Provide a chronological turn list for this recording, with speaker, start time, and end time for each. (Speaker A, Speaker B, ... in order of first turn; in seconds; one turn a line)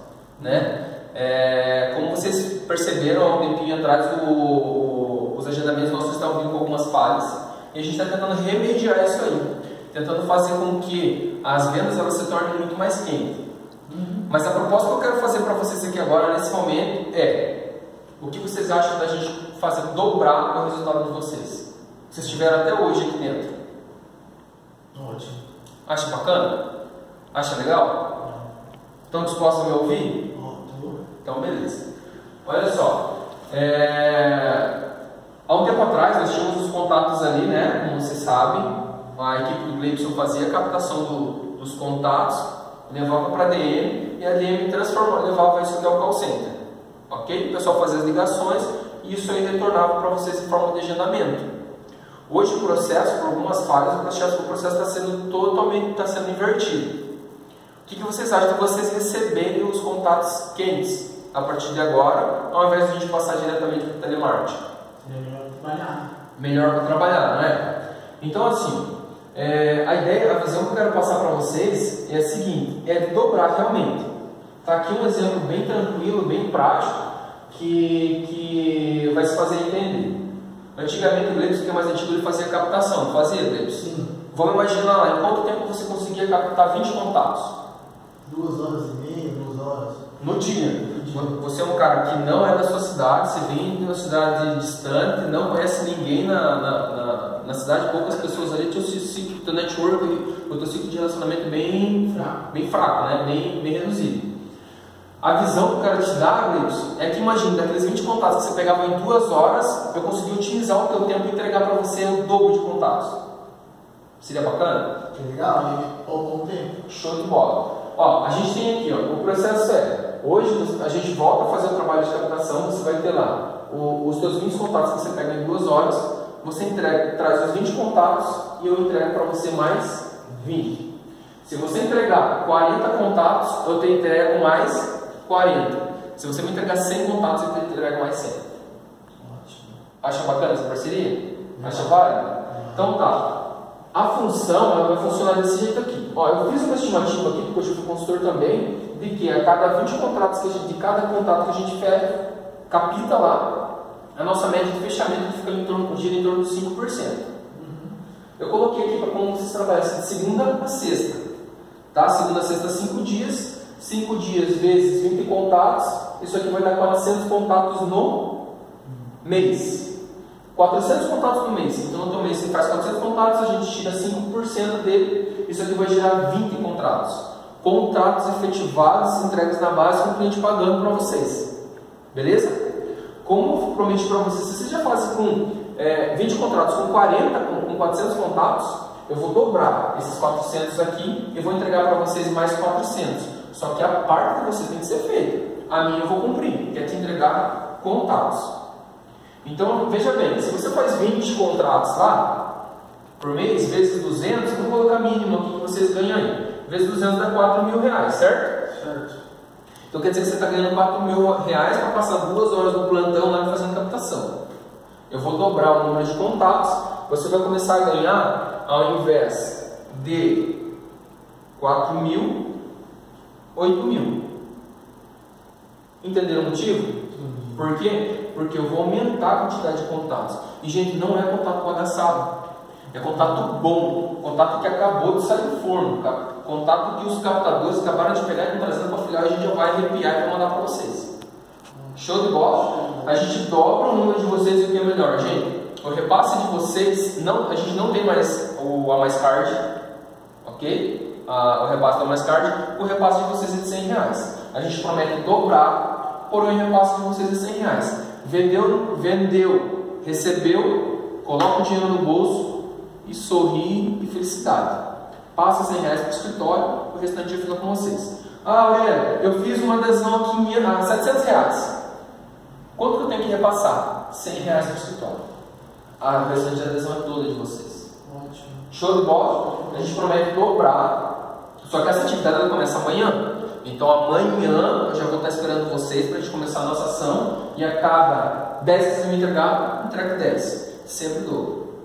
Speaker A: 0.4-0.7
Speaker B: 0.4-13.4
Speaker A: 13.9-14.3
Speaker B: 14.3-17.6
Speaker B: 18.2-23.5
Speaker A: 24.9-25.4
Speaker B: 25.9-26.6
Speaker B: 27.3-28.2
Speaker B: 29.1-30.3
Speaker A: 30.3-31.0
Speaker B: 31.2-31.8
Speaker B: 32.4-34.7
Speaker B: 35.5-51.5
Speaker B: 52.3-57.0
Speaker B: 57.9-64.6
Speaker A: 65.0-66.1
Speaker B: 66.4-74.1
Speaker B: 74.6-80.2
Speaker B: 80.7-87.5
Speaker A: 83.8-84.1
Speaker A: 88.2-90.1
Speaker B: 90.2-104.3
Speaker A: 90.9-91.3
Speaker B: 105.2-113.2
Speaker B: 114.2-115.0
Speaker A: 115.1-116.8
Speaker B: 116.9-130.9
Speaker B: 131.4-138.4
Speaker A: 139.2-139.8
Speaker B: 140.0-143.4
Speaker A: 141.6-141.9
Speaker A: 142.5-142.9
Speaker B: 143.9-153.6
Speaker B: 154.1-157.2
Speaker A: 157.5-157.9
Speaker B: 158.4-161.2
Speaker B: 161.9-168.3
Speaker B: 169.2-169.9
Speaker B: 170.5-181.5
Speaker B: 182.1-182.6
Speaker B: 183.2-198.5
Speaker B: 199.4-202.5
Speaker B: 203.2-208.7
Speaker A: 208.7-209.2
Speaker B: 209.9-214.4
Speaker B: 215.1-220.6
Speaker B: 221.6-222.5
Speaker B: 223.5-224.3
Speaker B: 226.0-227.0
Speaker A: 227.1-227.6
Speaker B: 227.6-232.3
Speaker B: 232.9-241.1
Speaker A: 232.9-233.5
Speaker A: 241.7-243.2
Speaker B: 241.9-249.6
Speaker B: 250.4-264.8
Speaker B: 265.3-271.8
Speaker B: 272.8-275.2
Speaker B: 276.0-277.9
Speaker A: 278.0-278.7
Speaker B: 278.7-281.1
Speaker A: 279.5-279.9
Speaker B: 281.6-291.6